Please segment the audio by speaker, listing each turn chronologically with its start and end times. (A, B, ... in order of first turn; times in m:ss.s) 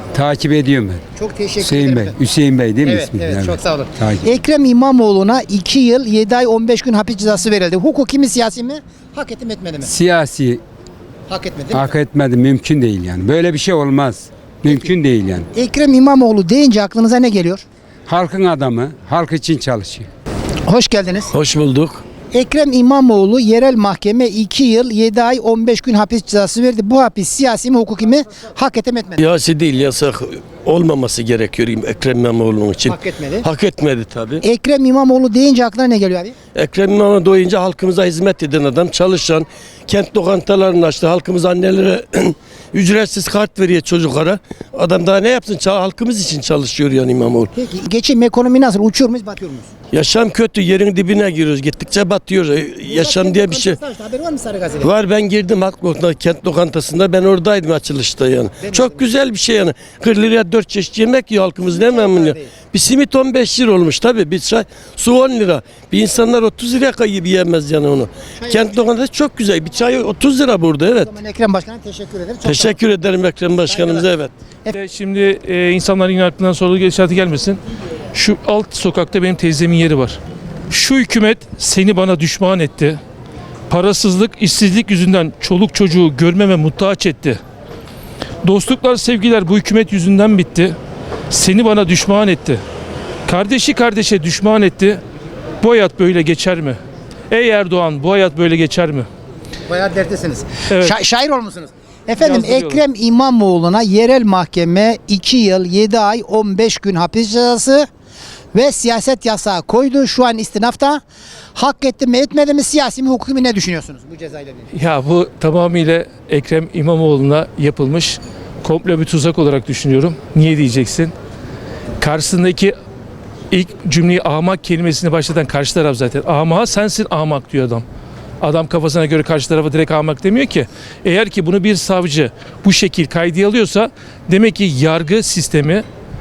0:00.1-0:01.0 A
0:01.2-0:02.2 B
0:01.6-0:03.5 A
0:02.8-0:09.9 B
0:09.8-0:10.6 A
0:11.3-0:11.9 B
0:11.7-0:15.4 A
0:14.6-0:14.9 B
0:15.5-0:17.6 B
0:18.1-0:20.0 A
0:20.7-0:21.3 B
0:21.3-0:22.0 C
0:22.3-0:29.2 B
0:29.2-0:34.4 C
0:32.9-0:33.4 B
0:34.4-0:36.3 B
0:36.5-0:47.5 C
0:47.5-0:49.7 B
0:49.9-0:53.8 C
0:52.9-0:54.9 B
0:54.8-1:11.1 C
0:58.6-0:59.0 B
1:01.8-1:02.4 B
1:08.4-1:08.8 B
1:11.0-1:12.8 B
1:12.4-1:14.3 C
1:13.7-1:14.0 B
1:14.7-1:17.6 D
1:18.1-1:20.2 D
1:20.7-1:23.0 D
1:23.7-1:27.4 D
1:28.4-1:30.8 D
1:31.3-1:32.6 D
1:33.3-1:35.0 D
1:35.6-1:36.8 D
1:37.3-1:39.1 D
1:39.7-1:47.9 B
1:40.7-1:40.9 D
1:42.2-1:42.8 D
1:48.5-1:51.0 B
1:51.5-1:54.6 B
1:54.7-2:01.1 D
2:02.0-2:02.7 D
2:03.5-2:07.8 D
2:08.4-2:15.8 D